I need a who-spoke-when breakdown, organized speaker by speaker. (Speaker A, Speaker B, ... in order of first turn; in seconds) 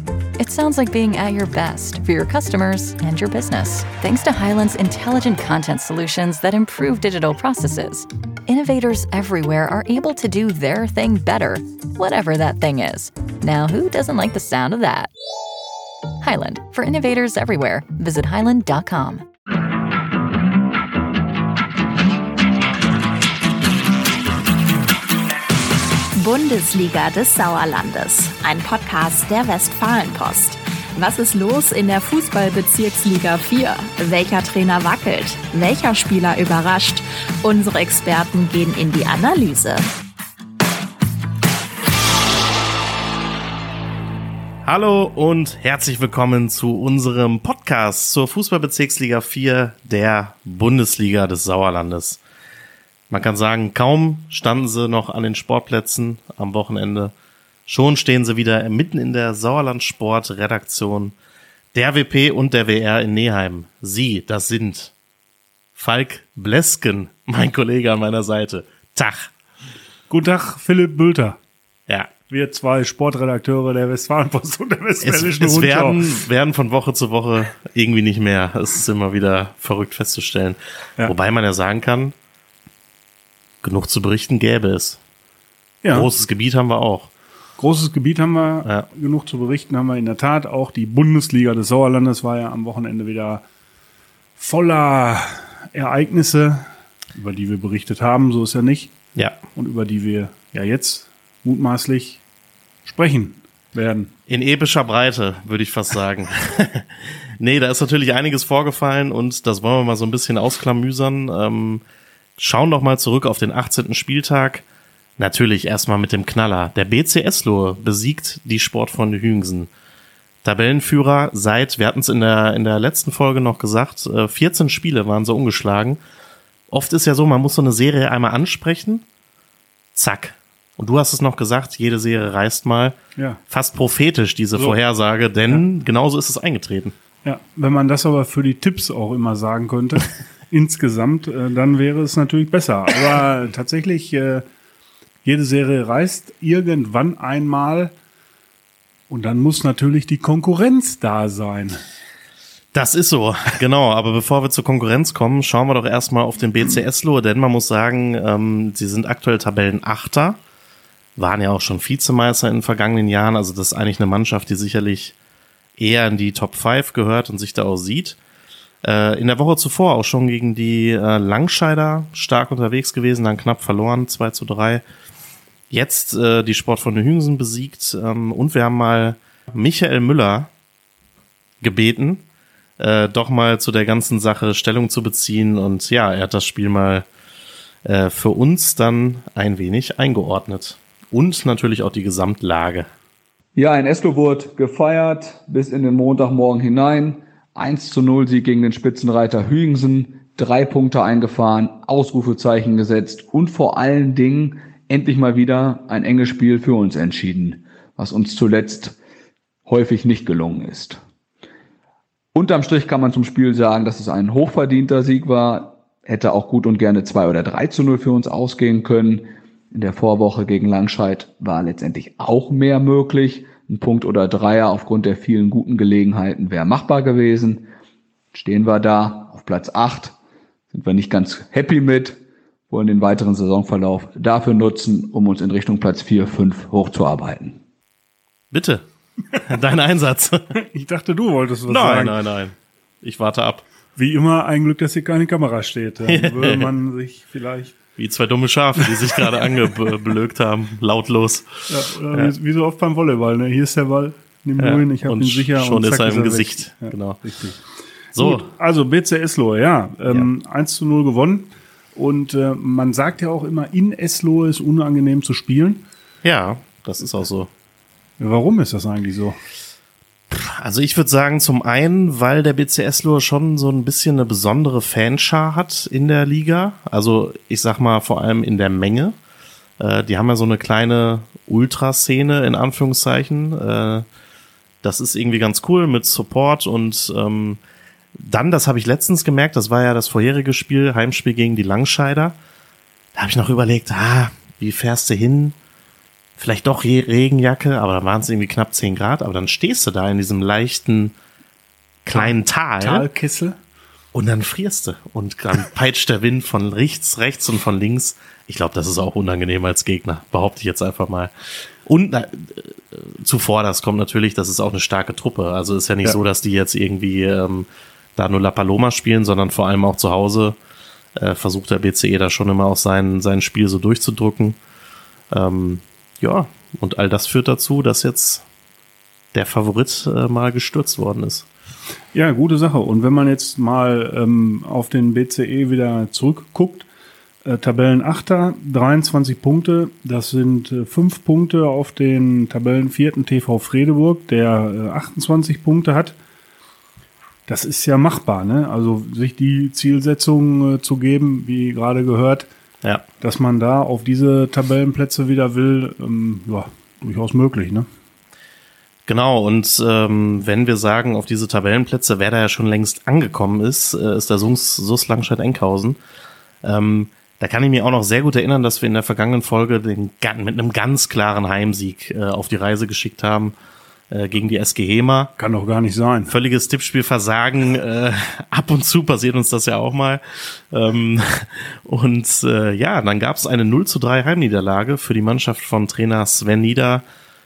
Speaker A: 0.4-15.1, 16.2-19.3
Speaker B: 26.1-39.9
Speaker C: 44.6-52.2, 53.1-57.1, 57.7-61.1, 61.7-64.9, 65.8-69.3, 75.0-82.2, 83.6-85.0, 85.9-87.1, 99.2-99.4, 104.3-111.8, 112.4-114.7, 115.2-119.7, 120.4-126.0, 126.7-129.1, 129.9-133.0, 133.5-136.9, 152.7-160.4, 161.2-165.2, 165.8-168.2, 168.8-174.8, 175.7-180.5, 181.6-182.2, 182.8-187.1, 187.8-192.9, 238.5-238.8, 239.4-240.4, 241.7-243.7, 246.1-246.7, 248.0-252.3, 254.6-257.2, 258.2-258.5, 266.2-267.5, 270.3-279.1, 279.8-284.1, 284.8-287.6, 288.1-292.4, 293.1-295.6, 296.4-301.1, 302.1-303.1, 304.1-311.3, 311.9-320.6, 321.2-324.6, 325.3-328.4, 329.3-331.5, 359.1-366.0, 366.6-373.6, 374.1-375.3, 376.3-387.0
Speaker D: 70.1-71.4, 72.3-76.1, 85.8-86.1, 87.6-93.4, 94.4-98.9, 99.5-102.2, 102.8-104.1, 137.2-144.4, 145.2-147.9, 149.1-151.8, 240.6-242.2, 244.0-247.8, 251.7-257.6, 258.2-265.9, 268.2-269.4, 302.1-303.6, 332.1-336.9, 337.4-346.1, 347.5-352.5, 353.2-357.9, 375.4-376.3
Speaker E: 193.6-209.0, 209.7-211.0, 212.3-227.7, 228.3-230.2, 230.7-232.2, 232.7-237.6